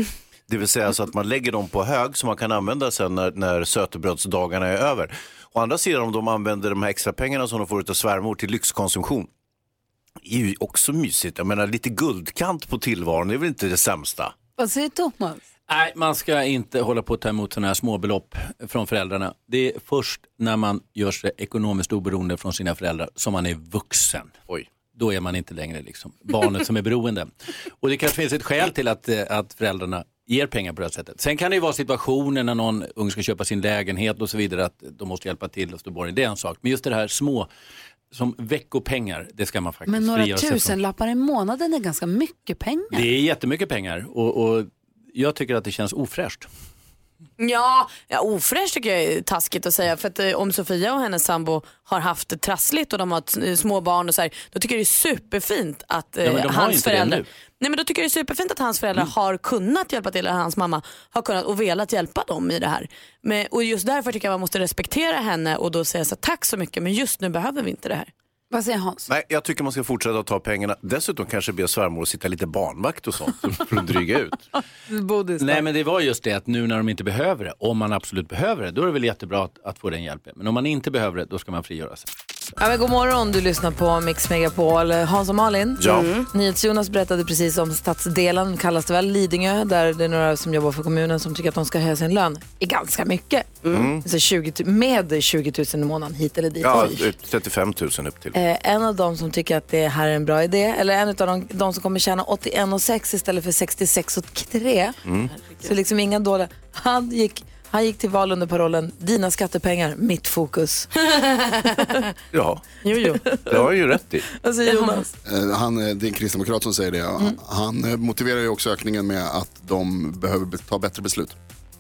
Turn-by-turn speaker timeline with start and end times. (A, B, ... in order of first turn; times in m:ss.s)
0:00.5-0:09.3 A
0:10.2-0:14.3 A
0:14.6-0:15.4 B
0:15.7-0:27.2 C
0:27.8-0:37.5 C
0:38.2-0:40.7 C
0:39.9-0:43.1 B
0:43.0-0:46.5 C
0:47.4-1:08.1 D
1:08.5-1:09.1 B
1:09.1-1:14.4 A
1:14.9-1:15.4 B
1:15.4-1:22.0 C
1:22.6-1:37.1 E
1:25.8-1:26.1 A
1:25.9-1:26.2 D
1:33.7-1:34.0 A
1:36.6-1:38.4 A
1:38.3-1:45.0 E
1:45.0-1:45.3 A
1:45.6-1:50.9 E
1:51.5-1:51.8 D
1:52.3-1:52.6 A
1:52.8-1:53.2 D
1:53.3-1:53.7 E
1:53.5-1:54.3 A
1:54.3-1:55.1 E
1:55.3-2:01.4 F